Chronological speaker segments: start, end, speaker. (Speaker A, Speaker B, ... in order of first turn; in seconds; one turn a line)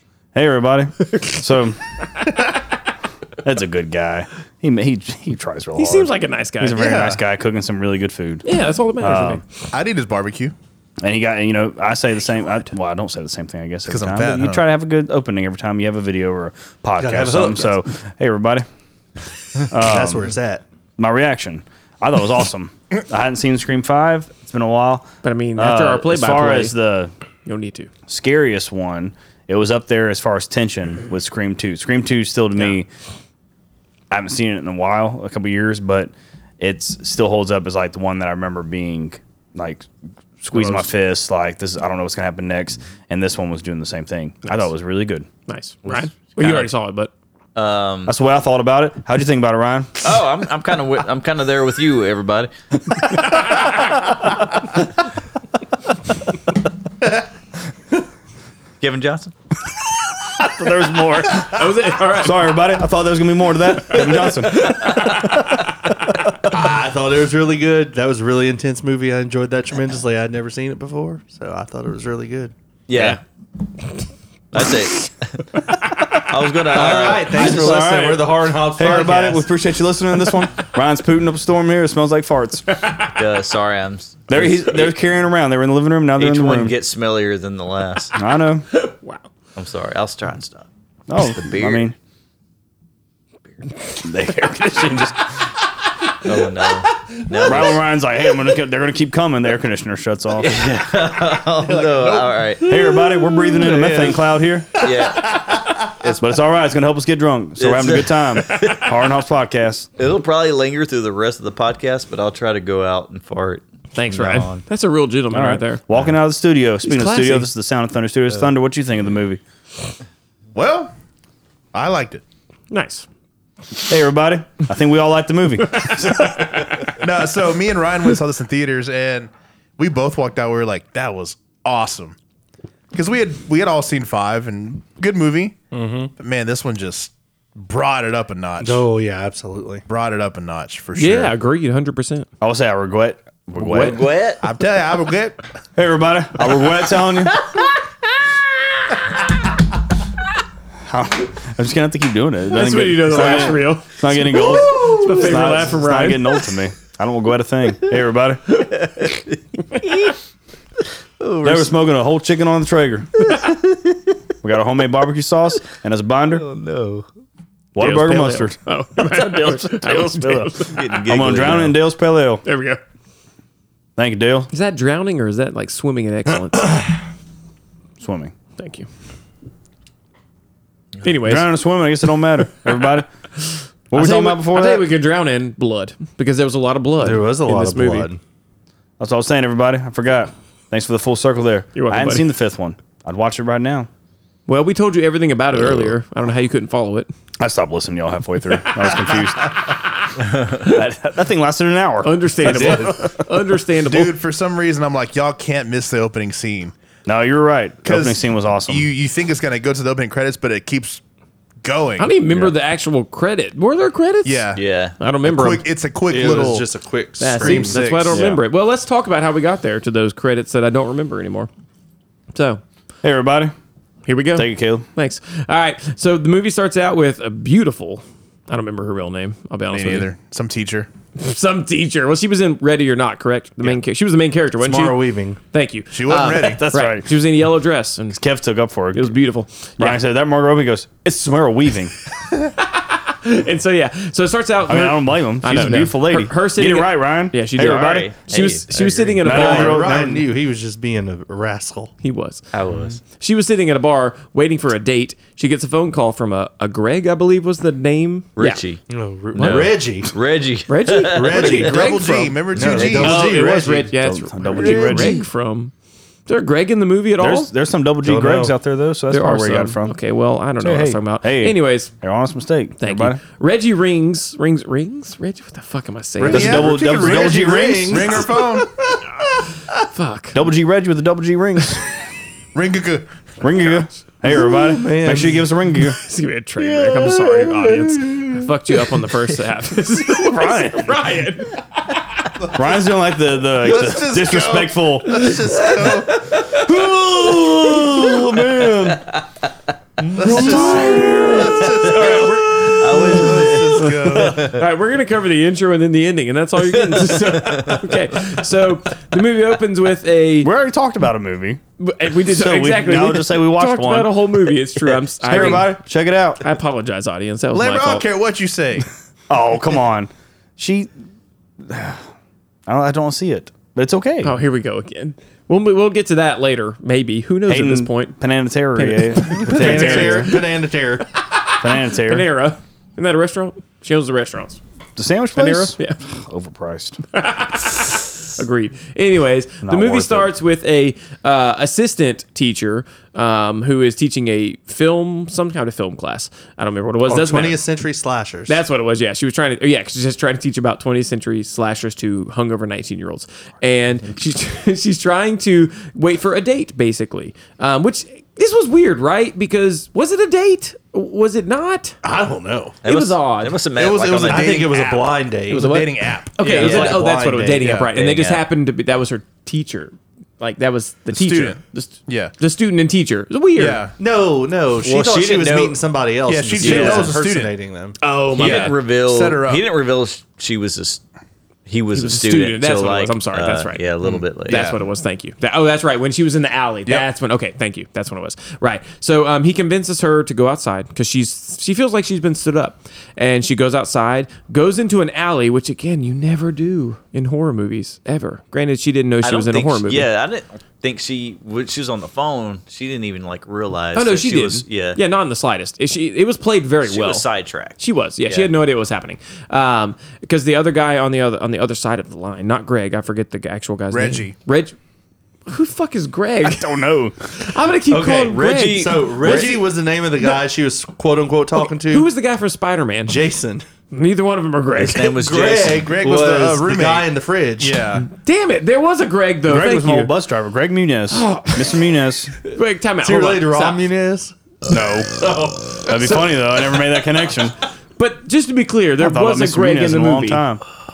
Speaker A: 0.3-1.8
Speaker A: 3.4-8.4
Speaker B: 5.8-6.8
Speaker C: 6.7-7.2
Speaker B: 8.4-9.4
Speaker A: 9.0-9.4
Speaker C: 9.7-10.5
Speaker A: 11.0-18.6
Speaker C: 13.9-14.6
Speaker D: 17.0-17.8
Speaker A: 19.7-20.3
Speaker D: 19.7-20.6
Speaker A: 21.0-27.1
Speaker B: 25.2-26.8
Speaker B: 27.4-27.9
Speaker A: 28.1-32.9
Speaker A: 34.1-39.9
Speaker A: 40.4-45.3
Speaker B: 45.5-47.1
Speaker E: 46.4-46.7
Speaker E: 47.5-48.1
Speaker A: 48.0-50.0
Speaker E: 50.0-52.5
Speaker E: 58.8-59.3
Speaker A: 60.3-65.3
Speaker B: 61.4-62.6
Speaker B: 64.0-65.0
Speaker D: 66.5-72.5
Speaker E: 72.9-73.2
Speaker E: 74.5-75.4
Speaker E: 76.1-77.7
Speaker D: 76.7-79.5
Speaker A: 76.8-82.9
Speaker E: 83.1-85.0
Speaker A: 84.3-86.7
Speaker E: 86.2-88.1
Speaker A: 88.1-88.7
Speaker B: 88.7-89.2
Speaker E: 89.5-91.9
Speaker A: 91.1-92.0
Speaker A: 94.0-95.5
Speaker E: 96.2-97.8
Speaker A: 97.4-100.7
Speaker E: 100.4-102.7
Speaker C: 101.7-102.4
Speaker A: 102.6-104.9
Speaker D: 103.5-104.2
Speaker E: 104.8-106.2
Speaker A: 106.2-109.9
Speaker E: 107.6-108.9
Speaker E: 110.0-114.6
Speaker B: 113.9-115.8
Speaker A: 114.1-114.5
Speaker A: 115.3-119.4
Speaker B: 116.8-117.5
Speaker C: 120.5-120.9
Speaker C: 121.7-122.2
Speaker B: 122.7-123.0
Speaker A: 123.8-126.7
Speaker B: 125.8-126.8
Speaker C: 126.9-132.2
Speaker C: 132.9-135.6
Speaker D: 135.7-136.1
Speaker C: 136.2-138.8
Speaker D: 138.6-139.8
Speaker C: 139.9-141.3
Speaker B: 140.9-142.3
Speaker A: 142.4-144.0
Speaker B: 143.6-144.0
Speaker E: 143.8-144.4
Speaker C: 144.4-145.4
Speaker A: 145.8-147.3
Speaker A: 150.8-158.7
Speaker B: 152.5-156.4
Speaker E: 158.8-160.1
Speaker E: 161.2-161.7
Speaker A: 161.4-163.3
Speaker A: 164.4-166.4
Speaker E: 166.3-167.1
Speaker A: 167.7-172.4
Speaker B: 167.8-170.8
Speaker E: 170.7-171.8
Speaker B: 172.4-172.8
Speaker A: 174.0-174.5
Speaker B: 174.5-176.7
Speaker A: 178.0-178.3
Speaker B: 178.6-178.9
Speaker B: 181.0-181.5
Speaker A: 181.2-183.1
Speaker A: 183.9-184.9
Speaker B: 183.9-188.1
Speaker D: 187.0-188.2
Speaker A: 189.0-193.9
Speaker B: 191.7-192.3
Speaker B: 194.5-197.1
Speaker A: 197.4-199.6
Speaker A: 200.4-203.2
Speaker B: 202.0-204.2
Speaker C: 202.6-202.9
Speaker C: 203.8-206.7
Speaker A: 207.1-208.9
Speaker C: 207.8-211.0
Speaker C: 211.6-212.2
Speaker B: 212.0-215.7
Speaker C: 214.2-214.6
Speaker E: 214.5-215.0
Speaker C: 215.2-216.7
Speaker D: 216.1-217.9
Speaker B: 217.2-221.5
Speaker C: 217.3-218.2
Speaker A: 218.1-218.4
Speaker B: 222.3-222.6
Speaker A: 223.0-223.5
Speaker B: 224.1-230.1
Speaker A: 224.3-224.8
Speaker C: 229.7-230.9
Speaker B: 231.2-238.2
Speaker D: 234.6-235.4
Speaker C: 235.9-236.6
Speaker A: 236.4-237.2
Speaker A: 238.1-239.2
Speaker B: 238.9-240.0
Speaker A: 239.8-241.9
Speaker B: 242.6-249.8
Speaker A: 244.7-248.1
Speaker E: 247.6-248.7
Speaker D: 248.8-251.9
Speaker A: 249.2-250.3
Speaker B: 252.0-252.5
Speaker E: 252.5-253.0
Speaker D: 252.7-252.9
Speaker B: 253.2-258.6
Speaker E: 258.4-258.8
Speaker D: 258.9-260.1
Speaker E: 259.3-261.6
Speaker B: 259.4-259.7
Speaker B: 260.7-262.4
Speaker D: 261.1-263.9
Speaker C: 261.3-263.3
Speaker E: 262.6-263.2
Speaker B: 263.0-265.7
Speaker A: 263.9-265.2
Speaker D: 264.6-265.2
Speaker B: 266.3-267.5
Speaker A: 267.2-270.0
Speaker D: 268.0-268.5
Speaker B: 269.1-271.9
Speaker A: 270.6-273.2
Speaker B: 272.8-276.8
Speaker A: 276.2-278.2
Speaker D: 276.2-278.6
Speaker C: 276.2-278.7
Speaker B: 279.8-280.4
Speaker A: 280.3-281.8
Speaker C: 282.5-283.2
Speaker A: 283.4-286.0
Speaker D: 284.3-285.5
Speaker B: 286.0-292.3
Speaker D: 286.7-288.2
Speaker A: 290.0-291.1
Speaker A: 292.5-299.1
Speaker C: 293.6-296.2
Speaker B: 300.1-310.5
Speaker C: 300.1-304.6
Speaker A: 300.2-301.9
Speaker E: 301.7-304.6
Speaker E: 306.6-307.9
Speaker A: 310.4-314.3
Speaker B: 311.8-315.8
Speaker A: 315.2-316.4
Speaker B: 316.4-318.1
Speaker C: 317.5-318.9
Speaker A: 319.3-320.9
Speaker A: 321.6-322.0
Speaker A: 322.7-324.4
Speaker B: 324.2-328.2
Speaker A: 327.5-330.4
Speaker B: 328.7-330.5
Speaker D: 329.3-331.0
Speaker B: 331.2-334.6
Speaker A: 331.6-332.3
Speaker A: 334.9-337.0
Speaker B: 335.3-336.0
Speaker B: 337.1-347.6
Speaker A: 339.6-340.3
Speaker D: 347.1-348.6
Speaker B: 348.5-362.0
Speaker D: 362.0-362.8
Speaker E: 362.8-364.6
Speaker B: 362.8-363.6
Speaker C: 363.8-366.4
Speaker D: 364.2-365.7
Speaker B: 365.5-373.8
Speaker D: 366.4-367.9
Speaker E: 366.6-367.1
Speaker E: 367.9-368.4
Speaker C: 371.1-372.3
Speaker C: 373.6-373.9
Speaker D: 374.0-378.0
Speaker E: 374.8-375.8
Speaker C: 376.2-377.5
Speaker B: 376.6-377.1
Speaker B: 378.0-378.8
Speaker C: 378.3-379.7
Speaker E: 378.4-381.0
Speaker E: 381.6-384.7
Speaker B: 381.9-383.9
Speaker C: 384.0-384.8
Speaker B: 384.4-400.1
Speaker E: 399.2-405.0
Speaker B: 403.9-407.3
Speaker E: 406.8-408.5
Speaker B: 407.8-414.7
Speaker C: 413.9-414.4
Speaker B: 415.5-416.6
Speaker A: 416.4-417.4
Speaker B: 417.4-419.6
Speaker D: 417.9-422.1
Speaker E: 418.3-419.6
Speaker B: 421.9-423.2
Speaker D: 423.0-423.6
Speaker B: 423.9-425.1
Speaker E: 424.8-425.9
Speaker D: 425.1-427.8
Speaker C: 425.7-428.1
Speaker B: 428.0-430.1
Speaker A: 429.4-432.3
Speaker B: 431.1-431.9
Speaker B: 432.4-433.9
Speaker D: 433.0-434.3
Speaker A: 434.7-437.6
Speaker D: 435.2-435.8
Speaker B: 435.9-436.4
Speaker B: 438.0-440.4
Speaker A: 439.0-440.6